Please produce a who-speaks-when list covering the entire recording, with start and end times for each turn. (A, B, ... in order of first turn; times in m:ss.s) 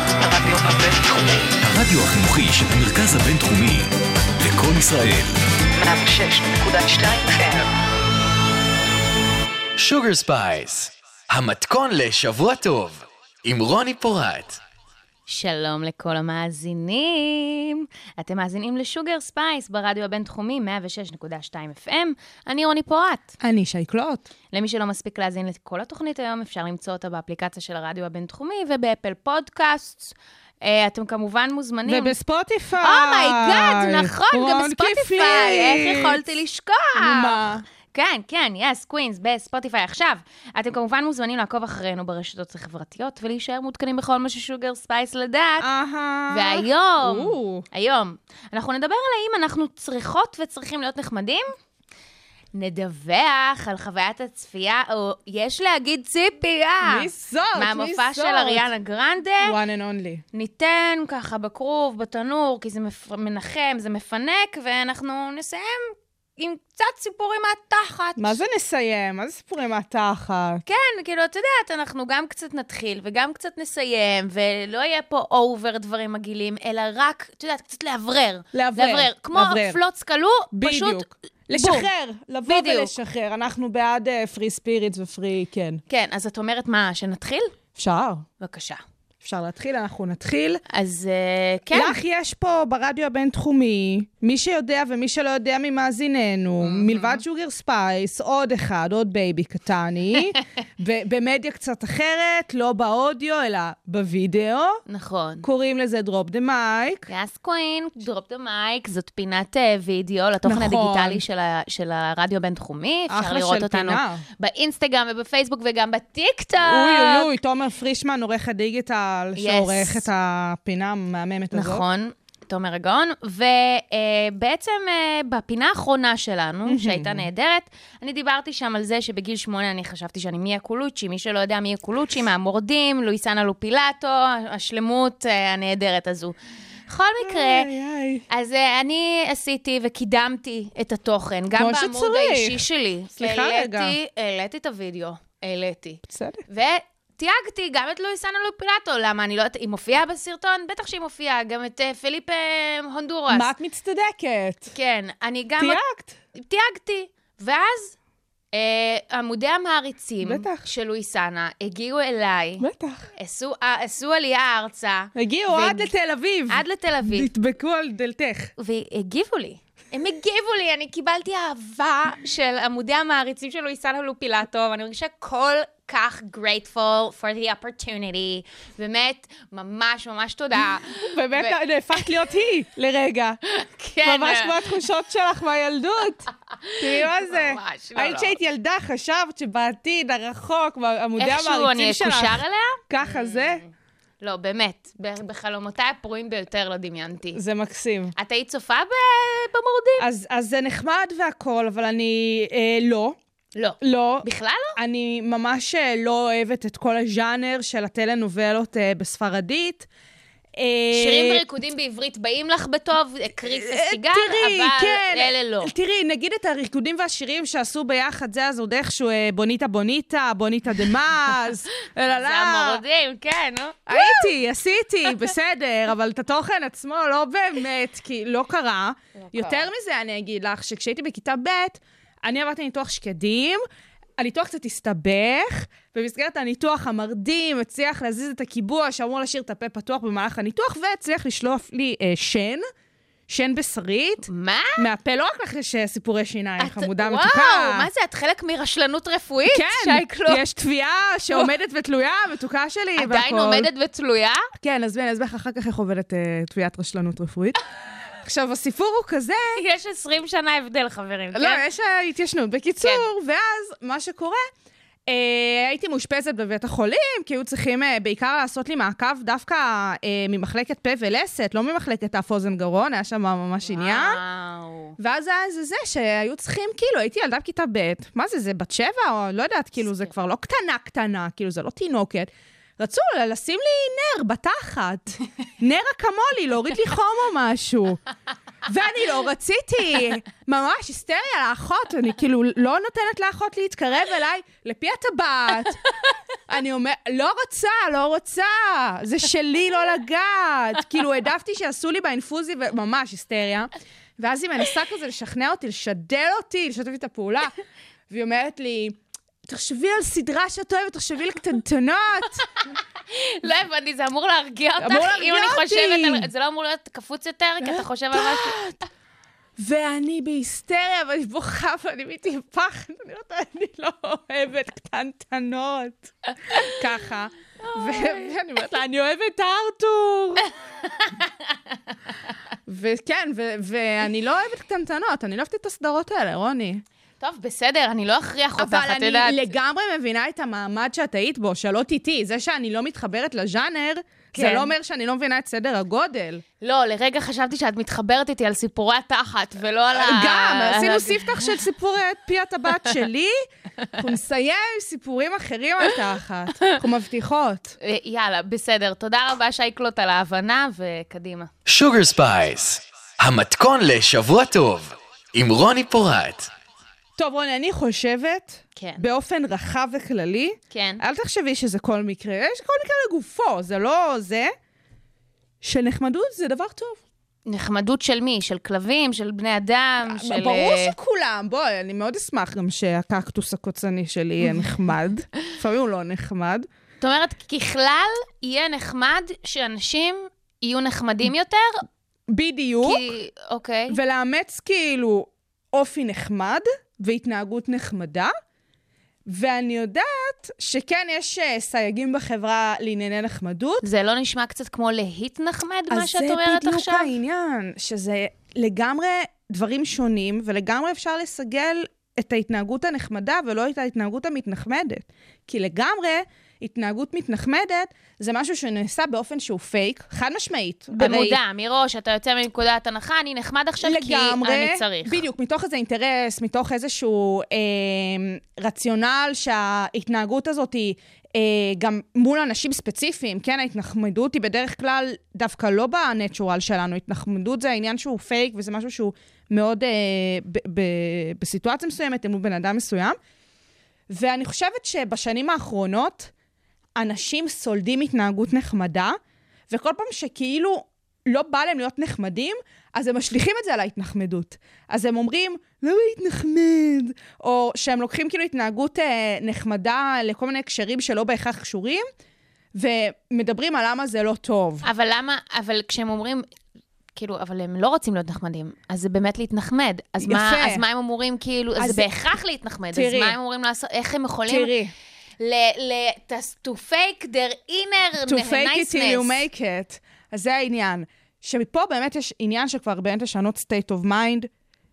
0:00.2-0:01.5 A
0:01.6-0:05.4 B
0:05.8-0:07.7 A
0:09.8-0:14.6 C
0:15.3-0:23.3 D
0:23.4-0:24.3 E
0:24.5-0:32.2 D
0:31.9-0:36.3 E
0:32.8-0:45.7 D
0:37.0-0:37.6 E
0:45.6-0:47.7 E
0:46.3-0:51.5 D
0:52.5-0:59.6 D
0:56.8-0:58.7 E
0:59.4-1:00.2 E
1:00.3-1:08.4 D
1:08.2-1:10.6 E
1:10.7-1:21.9 D
1:18.5-1:19.8 E
1:20.5-1:25.8 E
1:22.4-1:22.9 D
1:25.9-1:27.5 D
1:27.8-1:28.3 E
1:28.4-1:28.8 D
1:29.2-1:30.6 E
1:30.7-1:32.0 D
1:31.7-1:44.8 E
1:36.6-1:37.2 D
1:44.9-1:45.5 D
1:45.4-1:47.1 E
1:47.1-1:57.3 D
1:50.4-1:51.2 E
1:53.1-1:54.2 E
1:56.6-2:01.8 E
1:59.4-2:00.1 D
2:01.5-2:16.4 D
2:06.7-2:07.3 E
2:16.9-2:17.7 D
2:17.2-2:18.2 E
2:18.3-2:33.5 D
2:21.6-2:22.6 E
2:23.2-2:24.0 E
2:26.1-2:26.4 E
2:33.3-2:34.7 E
2:34.7-2:35.8 D
2:35.6-2:36.2 E
2:36.3-2:38.0 D
2:38.5-2:42.6 D
2:40.2-2:40.7 E
2:42.6-2:43.1 E
2:43.2-2:45.9 D
2:45.2-2:48.5 E
2:46.5-2:47.3 D
2:48.6-3:02.0 D
3:01.0-3:03.4 E
3:03.5-3:04.7 D
3:04.0-3:13.6 E
3:06.6-3:08.4 D
3:11.2-3:13.7 D
3:14.2-3:17.4 D
3:17.4-3:18.1 E
3:18.2-3:20.1 D
3:20.0-3:23.2 E
3:23.6-3:24.8 D
3:23.8-3:29.9 E
3:30.6-3:31.4 E
3:30.9-3:35.7 D
3:33.5-3:42.8 E
3:42.1-3:44.3 D
3:43.9-3:53.6 E
3:49.2-3:49.7 D
3:54.2-4:02.6 E
4:03.3-4:07.9 E
4:04.3-4:04.8 D
4:06.6-4:10.4 D
4:09.5-4:13.7 E
4:13.0-4:14.5 D
4:14.6-4:17.6 E
4:18.2-4:19.6 E
4:19.6-4:21.6 D
4:21.4-4:24.4 E
4:22.8-4:23.1 D
4:25.1-4:34.2 E
4:33.6-4:35.0 D
4:35.0-4:48.0 E
4:48.7-4:55.8 E
4:56.5-5:07.5 E
5:08.1-5:12.4 E
5:13.1-5:18.6 D
5:14.8-5:16.3 E
5:17.6-5:18.8 E
5:19.6-5:30.5 E
5:32.7-5:36.8 E
5:37.2-5:39.4 D
5:38.6-5:46.4 E
5:44.3-5:44.7 D
5:46.6-5:51.6 D
5:49.9-5:53.4 E
5:53.9-5:57.8 E
5:57.8-6:01.5 D
6:01.7-6:06.5 C
6:07.2-6:14.5 E
6:08.8-6:09.1 D
6:10.7-6:11.0 D
6:15.6-6:17.0 E
6:17.5-6:21.0 D
6:20.0-6:26.7 E
6:27.0-6:31.9 D
6:32.3-6:33.1 E
6:32.8-6:34.0 D
6:33.9-6:38.3 E
6:39.3-6:43.8 E
6:43.8-6:47.1 D
6:45.9-7:01.4 E
7:00.9-7:05.2 D
7:03.8-7:23.2 E
7:24.1-7:26.3 E
7:27.0-7:29.2 E
7:29.7-7:42.0 E
7:42.8-7:44.8 E
7:44.8-7:46.4 D
7:47.2-7:54.7 D
7:50.2-7:50.8 E
7:51.8-7:52.1 E
7:52.9-7:53.4 E
7:54.5-7:54.9 E
7:55.4-7:59.4 D
7:58.3-8:04.5 E